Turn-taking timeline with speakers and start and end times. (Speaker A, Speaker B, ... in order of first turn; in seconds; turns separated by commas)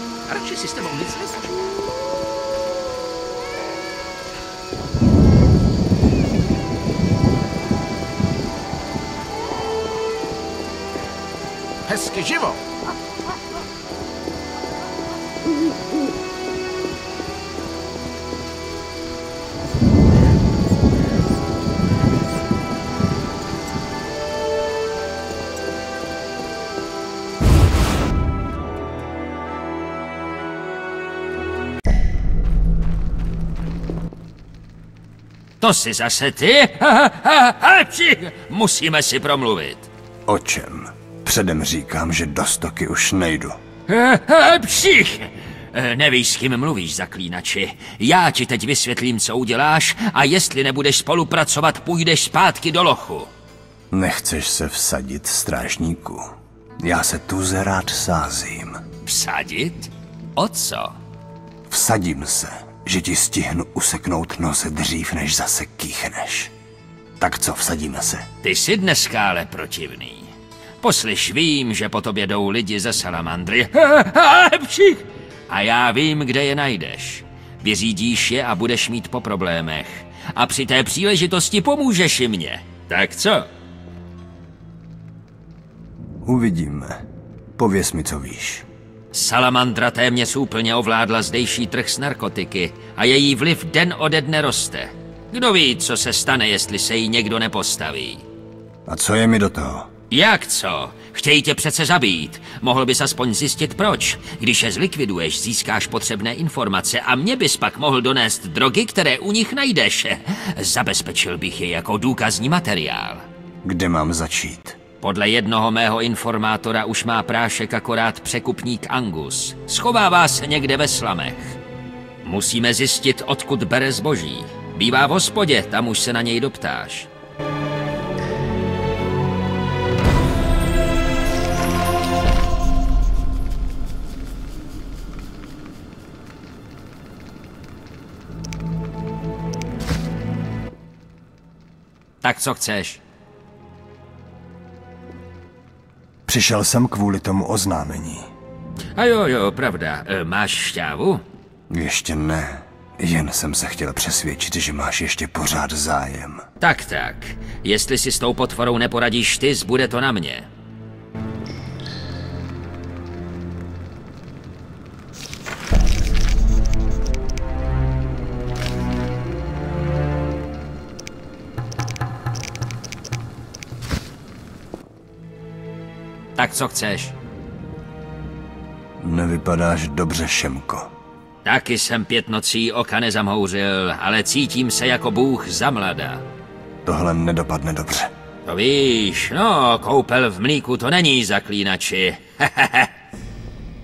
Speaker A: 0.3-1.5, Speaker A: 11.9-12.6, Speaker B: 35.6-39.9, Speaker C: 40.3-43.6, Speaker B: 43.9-53.3, Speaker C: 53.9-58.8, Speaker B: 59.0-61.0, Speaker C: 61.7-66.5, Speaker C: 67.2-68.2, Speaker B: 68.4-83.5, Speaker C: 86.2-87.0, Speaker C: 87.6-88.7, Speaker B: 89.1-98.2, Speaker C: 98.9-99.9, Speaker B: 100.1-113.2, Speaker C: 113.6-114.8, Speaker B: 115.0-121.6, Speaker B: 122.2-127.1, Speaker B: 142.2-143.0, Speaker C: 146.3-148.3, Speaker B: 149.0-151.2, Speaker C: 151.7-156.4, Speaker B: 156.6-160.5, Speaker B: 176.3-177.1, Speaker C: 179.0-180.9, Speaker B: 181.4-186.2, Speaker C: 186.8-188.1, Speaker B: 188.4-192.9